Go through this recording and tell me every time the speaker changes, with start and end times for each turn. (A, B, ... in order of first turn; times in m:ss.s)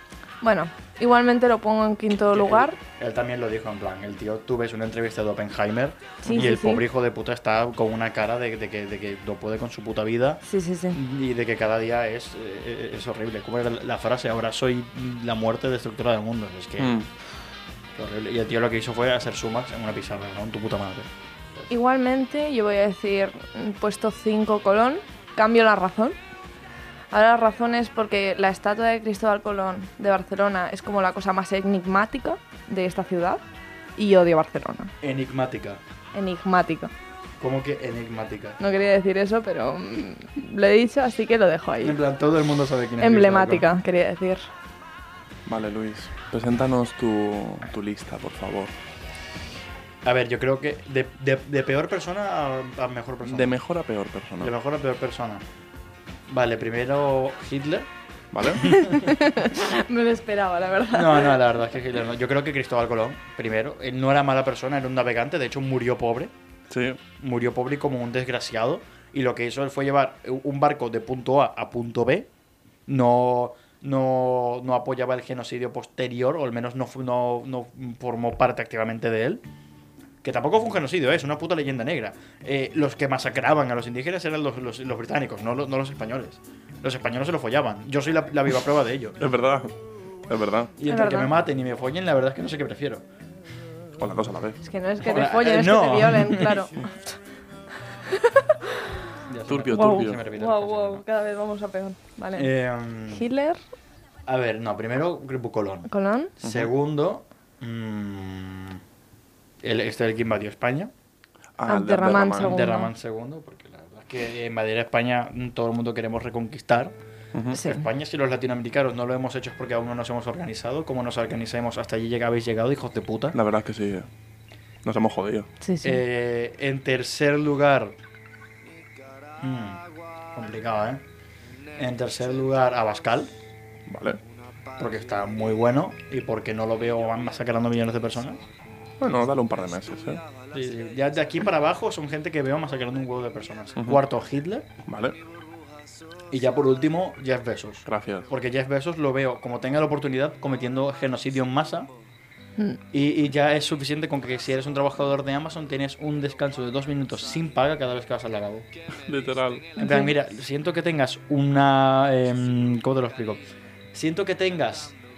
0:00.4-0:02.8 A
0:02.3-0:10.4 B
0:06.2-0:06.8 A
0:10.5-0:11.0 A
0:10.9-0:17.0 B
0:16.8-0:17.1 C
0:18.0-0:21.6 B
0:21.7-0:26.2 A
0:27.1-0:33.4 A
0:34.0-0:34.9 A
0:35.0-0:35.8 B
0:36.1-0:36.9 A
0:37.4-0:38.6 B
0:38.6-0:42.0 A
0:41.8-0:43.7 B
0:43.0-0:44.5 A
0:45.5-0:48.7 C
0:50.0-0:53.5 B
0:53.3-0:54.5 C
0:54.4-0:55.4 B
0:56.3-0:57.9 B
0:58.3-0:58.8 C
0:58.6-0:59.1 B
0:58.7-1:01.4 A
1:00.9-1:06.3 B
1:06.7-1:07.0 C
1:07.2-1:12.3 B
1:12.9-1:19.4 B
1:20.2-1:29.2 B
1:29.2-1:29.7 C
1:30.3-1:30.7 C
1:30.8-1:33.0 B
1:30.9-1:31.3 A
1:34.0-1:34.6 C
1:34.6-1:37.2 A
1:35.0-1:36.7 B
1:38.1-1:38.6 A
1:39.3-1:41.0 B
1:39.5-1:40.2 C
1:39.7-1:42.5 A
1:42.4-1:43.2 B
1:43.1-1:43.6 A
1:44.3-1:45.9 B
1:45.9-1:46.3 A
1:46.4-1:48.8 B
1:46.4-1:46.7 C
1:49.6-1:50.9 B
1:51.6-1:52.6 C
1:51.7-1:52.9 A
1:52.4-1:57.0 B
1:57.3-1:57.6 C
1:57.5-2:03.4 B
1:57.6-1:57.8 A
2:03.3-2:04.1 C
2:04.8-2:05.5 C
2:05.6-2:06.0 A
2:05.8-2:08.0 B
2:09.4-2:09.8 B
2:10.4-2:11.0 B
2:11.8-2:13.3 B
2:13.9-2:14.2 C
2:14.8-2:18.4 B
2:19.0-2:20.2 C
2:20.5-2:24.7 B
2:23.8-2:24.0 C
2:24.8-2:25.2 C
2:26.3-2:31.9 B
2:27.9-2:28.3 C
2:32.9-2:38.7 B
2:38.9-2:39.7 C
2:39.8-2:40.1 A
2:39.8-2:43.4 B
2:43.9-2:45.0 B